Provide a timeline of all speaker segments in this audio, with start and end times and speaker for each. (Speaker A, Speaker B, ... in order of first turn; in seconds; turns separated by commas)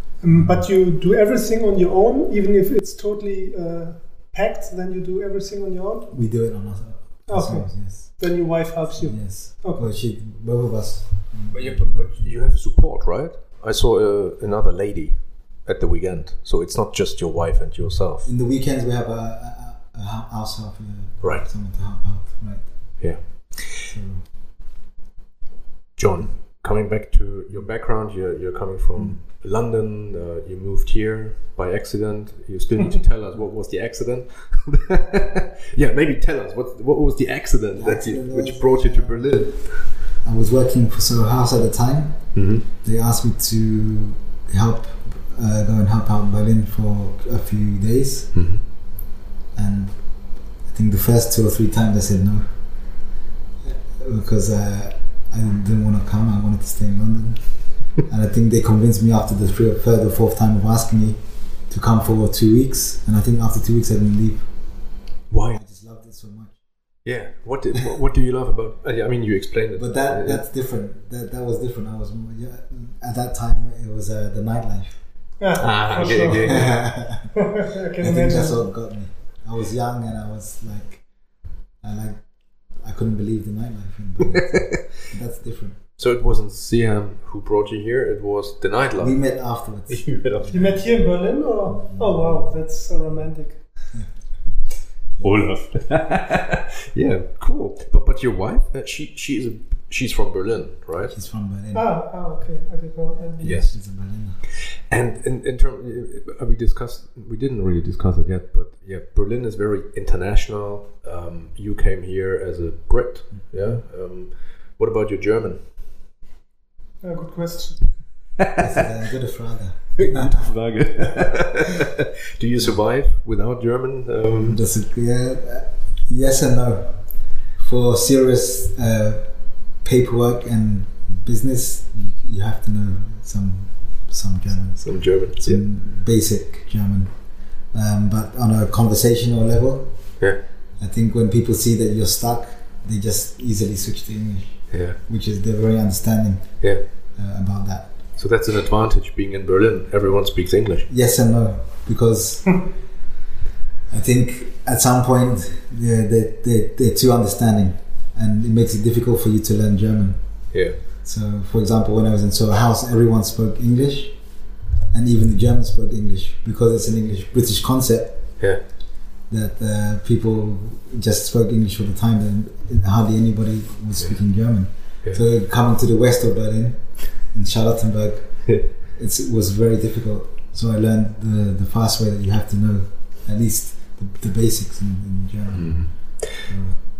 Speaker A: 0.2-6.1, Speaker B: 0.3-0.7, Speaker B: 6.1-8.3, Speaker A: 7.3-9.8, Speaker B: 9.0-12.3, Speaker C: 11.5-18.3, Speaker B: 18.2-23.2, Speaker C: 23.0-23.9, Speaker B: 23.8-24.2, Speaker C: 26.0-40.0, Speaker B: 37.7-48.3, Speaker C: 42.3-42.6, Speaker C: 48.3-48.6, Speaker B: 49.5-52.5, Speaker B: 53.6-64.5, Speaker C: 65.3-65.6, Speaker B: 65.5-66.6, Speaker C: 67.0-70.4, Speaker B: 69.8-75.0, Speaker A: 75.4-76.7, Speaker C: 75.6-76.9, Speaker B: 76.2-77.4, Speaker A: 77.4-78.7, Speaker B: 78.0-81.0, Speaker B: 81.8-82.2, Speaker B: 82.8-85.8, Speaker C: 84.3-84.8, Speaker C: 86.0-90.8, Speaker B: 89.0-90.7, Speaker A: 90.5-93.6, Speaker B: 91.8-92.5, Speaker C: 95.2-101.1, Speaker B: 101.1-101.9, Speaker A: 101.7-103.6, Speaker C: 103.4-103.7, Speaker B: 103.4-104.4, Speaker C: 104.4-115.6, Speaker A: 117.0-117.9, Speaker B: 118.5-120.4, Speaker C: 120.0-124.6, Speaker B: 124.3-140.2, Speaker C: 134.8-135.6, Speaker B: 140.8-148.0, Speaker C: 144.7-145.0, Speaker C: 148.2-150.9, Speaker B: 150.9-152.7, Speaker B: 153.9-168.4, Speaker C: 160.5-160.8, Speaker B: 169.3-186.8, Speaker C: 185.5-186.5